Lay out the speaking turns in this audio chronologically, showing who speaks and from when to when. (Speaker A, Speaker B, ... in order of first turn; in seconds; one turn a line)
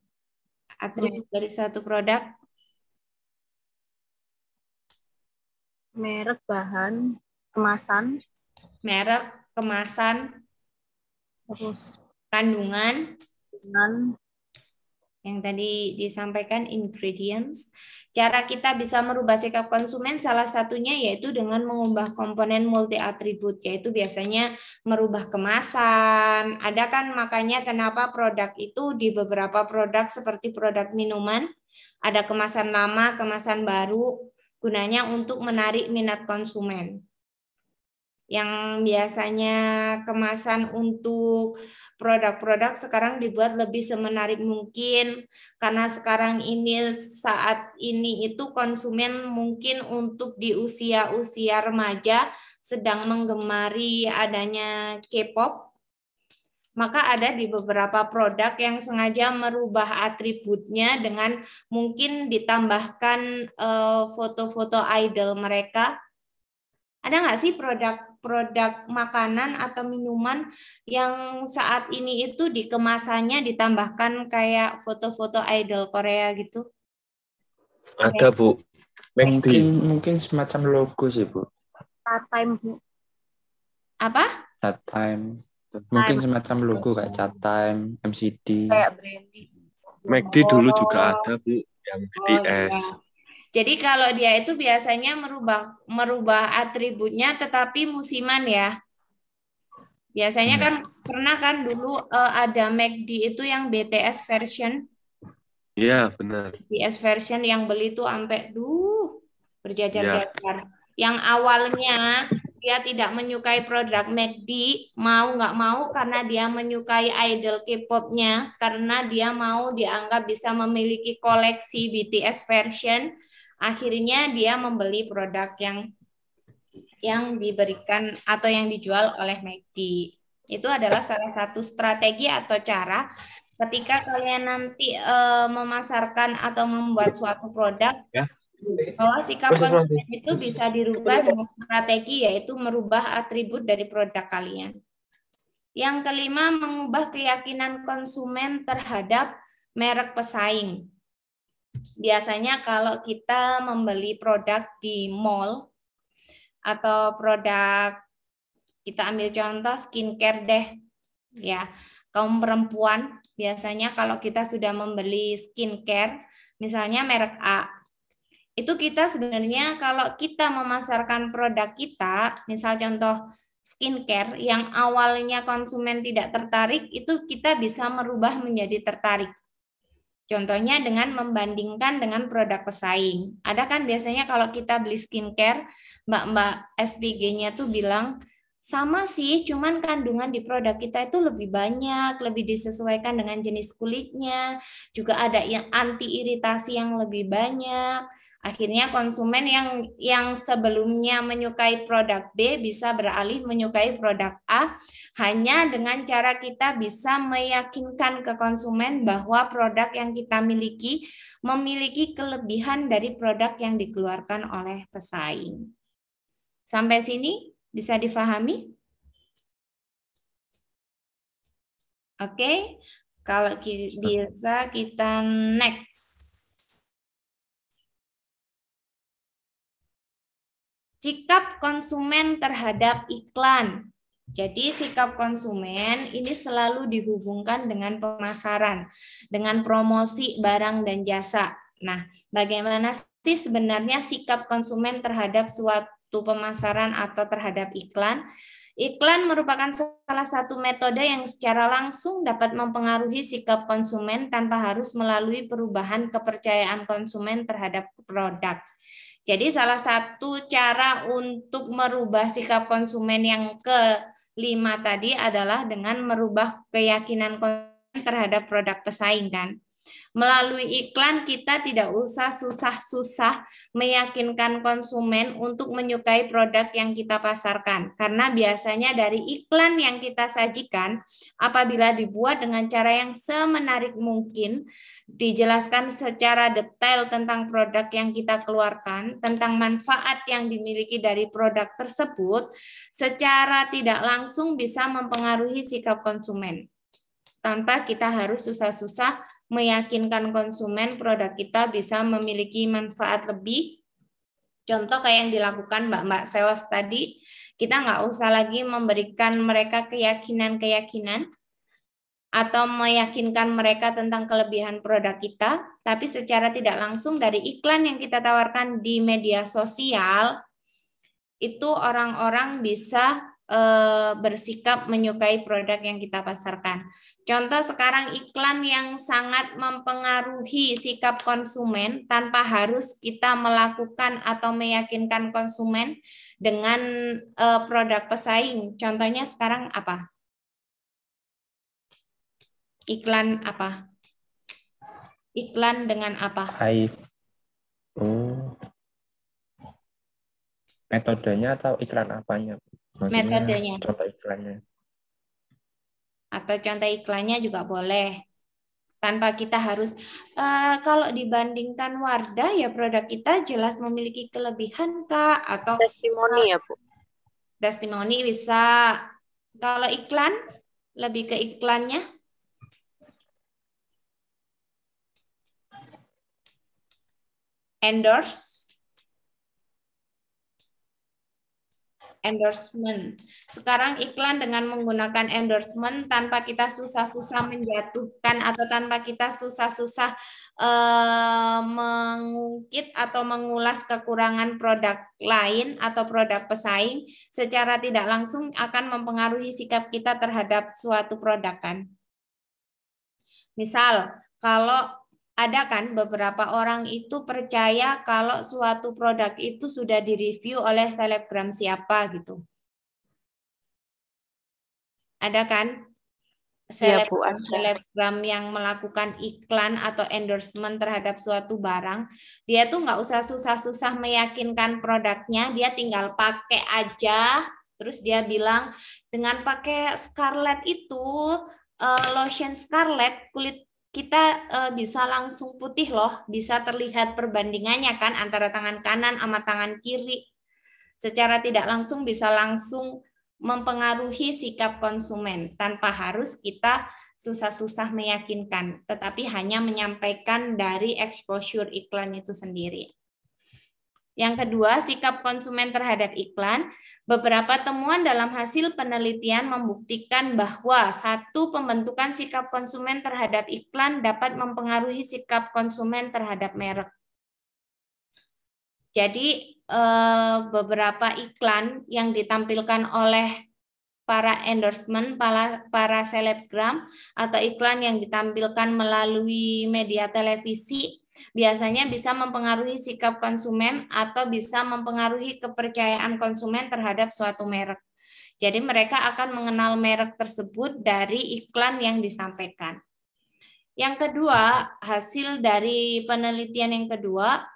Speaker A: 0.8-2.2
Speaker B: 6.0-7.0
Speaker B: 7.5-8.2
Speaker A: 8.8-10.2
Speaker B: 11.5-12.0
Speaker A: 12.3-13.0
Speaker B: 13.6-14.0
Speaker A: 15.2-17.6
Speaker A: 18.1-31.5
Speaker A: 32.1-37.0
Speaker A: 38.3-45.1
Speaker A: 45.6-55.7
Speaker A: 56.8-65.9
Speaker A: 67.0-76.6
Speaker C: 78.0-78.6
Speaker C: 79.2-79.7
Speaker D: 79.2-81.5
Speaker B: 82.1-82.8
Speaker A: 84.0-84.3
Speaker D: 84.6-88.8
Speaker B: 85.9-87.3
Speaker B: 88.7-89.5
Speaker C: 90.1-92.8
Speaker A: 90.3-91.2
Speaker A: 92.2-92.9
Speaker A: 93.5-98.7
Speaker A: 100.2-104.8
Speaker C: 105.8-106.6
Speaker A: 106.7-123.1
Speaker C: 109.9-110.2
Speaker A: 123.6-125.8
Speaker A: 127.0-133.0
Speaker A: 133.6-138.0
Speaker C: 138.1-138.9
Speaker A: 139.0-144.7
Speaker C: 139.5-140.5
Speaker C: 141.0-141.3
Speaker A: 145.8-150.8
Speaker A: 152.0-155.6
Speaker A: 156.7-158.0
Speaker A: 158.9-160.7
Speaker A: 161.4-167.7
Speaker A: 168.6-179.3
Speaker A: 180.3-188.1
Speaker A: 188.7-194.4
Speaker A: 194.9-197.8
Speaker A: 198.4-215.6
Speaker A: 216.7-218.7
Speaker A: 222.2-226.1
Speaker A: 231.0-248.2
Speaker A: 248.8-258.6
Speaker A: 259.3-263.8
Speaker A: 264.4-269.5
Speaker A: 270.2-284.6
Speaker A: 285.2-292.4
Speaker A: 293.0-296.6
Speaker A: 297.4-303.8
Speaker A: 304.7-307.1
Speaker A: 307.6-311.2
Speaker A: 312.4-320.3
Speaker A: 321.4-336.8
Speaker A: 337.4-340.0
Speaker A: 342.9-343.8
Speaker A: 345.4-346.5
Speaker D: 346.5-346.9
Speaker D: 348.0-348.6
Speaker D: 350.9-354.6
Speaker A: 353.1-353.8
Speaker A: 356.4-358.2
Speaker A: 359.0-366.5
Speaker E: 365.8-366.8
Speaker A: 367.6-369.0
Speaker A: 369.6-370.3
Speaker A: 371.0-372.0
Speaker A: 377.8-378.7
Speaker A: 382.2-401.8
Speaker A: 403.6-404.8
Speaker A: 405.4-412.4
Speaker A: 415.2-415.7
Speaker A: 416.7-440.2
Speaker E: 416.8-417.7
Speaker A: 441.0-442.9
Speaker A: 443.4-452.9
Speaker A: 454.2-466.9
Speaker A: 469.0-473.3
Speaker A: 474.1-487.8
Speaker A: 488.4-492.8
Speaker A: 493.8-497.4